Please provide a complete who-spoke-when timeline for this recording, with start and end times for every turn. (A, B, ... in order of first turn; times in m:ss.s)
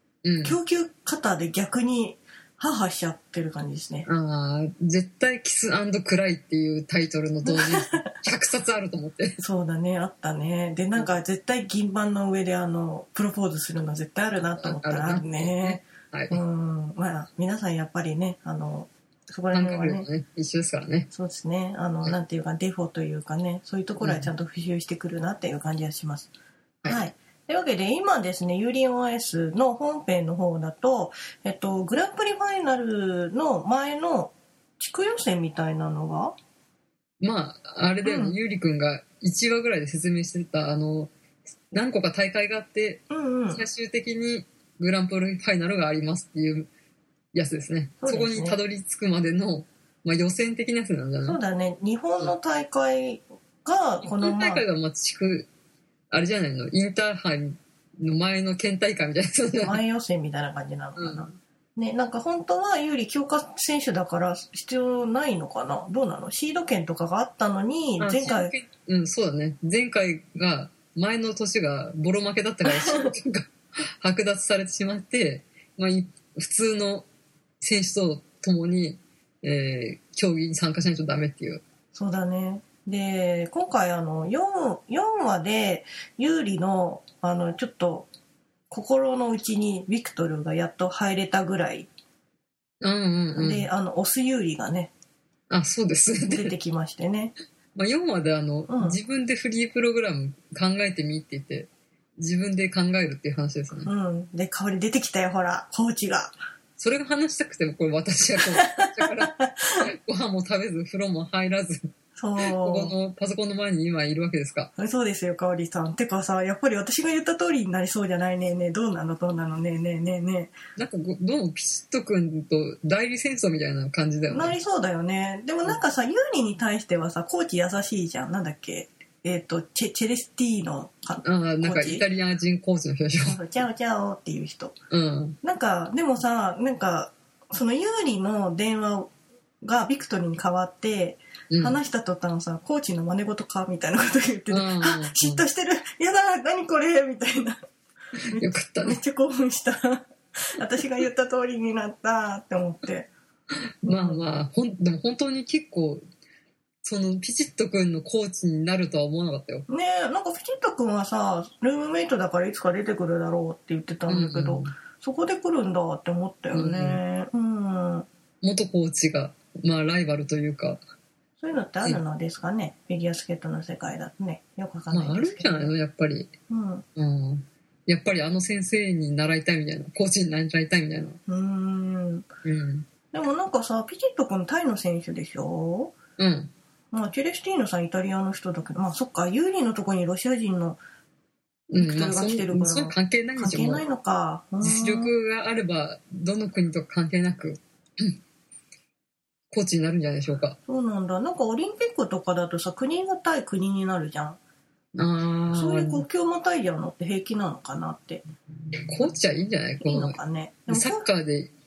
0:00.2-0:00.6 A
0:00.4-0:04.1 B
0:04.1-0:09.4 A
0:07.5-0:08.1 B
0:09.4-0:20.1 B
0:14.5-0:16.4 A
0:19.5-0:21.1 A
0:21.1-0:26.3 B
0:24.0-0:24.3 A
0:26.9-0:36.4 B
0:37.2-0:41.1 A
0:38.0-0:38.4 B
0:41.7-0:46.7 A
0:43.1-0:43.6 B
0:47.3-0:51.4 A
0:48.0-0:48.6 B
0:51.2-0:54.6 B
0:54.2-0:55.5 A
0:56.1-0:59.8 A
0:59.6-1:08.5 B
1:01.0-1:01.3 A
1:08.0-1:17.1 A
1:12.7-1:13.1 B
1:17.6-1:21.6 A
1:21.9-1:28.1 B
1:28.7-1:31.9 B
1:32.8-1:33.7 A
1:33.4-1:34.9 B
1:35.5-1:36.5 A
1:36.3-1:37.4 B
1:37.8-1:43.9 A
1:38.7-1:39.0 B
1:43.8-1:46.3 B
1:46.8-1:54.7 A
1:48.4-1:49.9 B
1:52.2-1:52.9 B
1:54.8-2:00.6 B
2:00.8-2:04.6 A
2:04.3-2:12.0 B
2:11.2-2:13.4 A
2:13.2-2:14.8 B
2:14.9-2:15.4 A
2:15.4-2:19.1 B
2:19.6-2:27.6 B
2:21.5-2:21.8 A
2:24.5-2:25.4 A
2:28.3-2:33.1 B
2:28.4-2:29.0 A
2:33.8-2:36.0 A
2:33.9-2:34.2 B
2:36.8-2:39.7 A
2:39.7-2:48.1 B
2:44.1-2:44.7 A
2:46.5-2:47.0 A
2:48.4-2:50.8 A
2:51.4-2:55.7 B
2:54.9-2:56.3 A
2:56.5-2:56.8 B
2:57.0-3:01.2 A
3:01.3-3:02.2 B
3:02.4-3:02.9 A
3:03.1-3:05.9 B
3:06.2-3:06.5 A
3:06.9-3:10.8 B
3:11.7-3:13.8 A
3:11.8-3:15.1 B
3:14.6-3:18.2 A
3:19.5-3:20.6 A
3:20.7-3:24.4 B
3:24.9-3:26.0 A
3:25.5-3:28.2 B
3:28.9-3:30.2 A
3:29.8-3:31.1 B
3:30.7-3:31.5 A